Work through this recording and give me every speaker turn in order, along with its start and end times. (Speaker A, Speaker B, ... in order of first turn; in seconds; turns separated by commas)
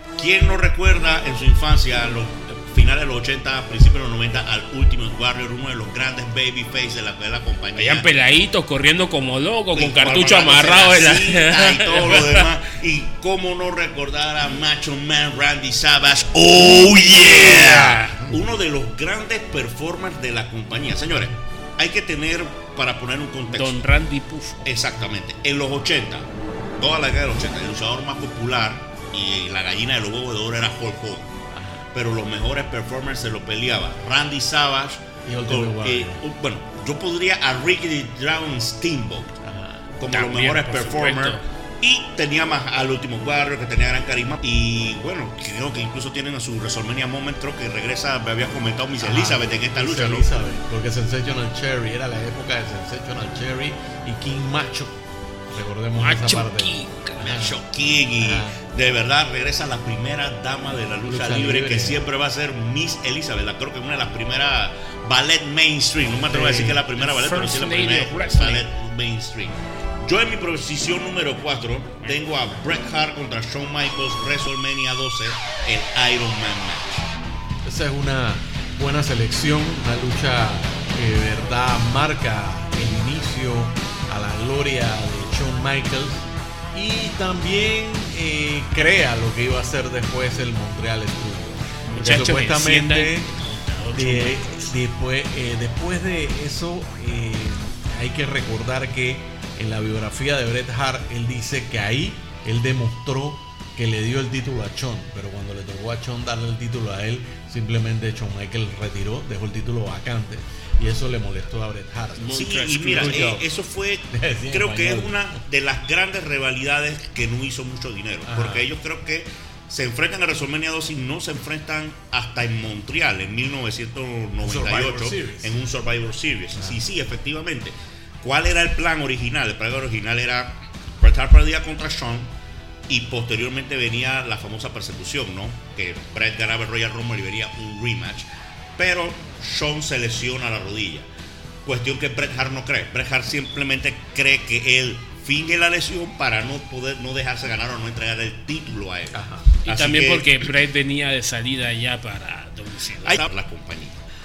Speaker A: 0.2-8.1, Speaker B: 7.8-12.5, Speaker A: 9.7-23.9, Speaker B: 16.8-18.3, Speaker B: 23.5-24.7, Speaker A: 24.6-26.3, Speaker A: 26.8-31.3, Speaker C: 31.5-31.9, Speaker A: 31.9-39.4, Speaker C: 35.2-36.2, Speaker C: 39.4-39.9, Speaker A: 40.0-50.3, Speaker B: 40.1-41.4, Speaker C: 49.0-55.0, Speaker C: 55.5-57.6, Speaker B: 56.0-57.3, Speaker A: 57.2-77.1, Speaker C: 58.2-58.6, Speaker C: 61.0-62.0, Speaker C: 66.3-66.8, Speaker B: 66.9-68.6, Speaker C: 77.7-93.3, Speaker B: 91.9-94.8, Speaker C: 93.9-113.5, Speaker B: 112.2-113.3, Speaker A: 112.3-132.3, Speaker C: 114.1-115.4, Speaker C: 118.2-118.7, Speaker C: 124.4-125.6, Speaker C: 126.6-126.8, Speaker A: 132.9-138.3, Speaker A: 138.8-141.1, Speaker A: 141.7-150.5, Speaker C: 149.1-149.5, Speaker B: 149.7-153.2, Speaker A: 153.0-154.0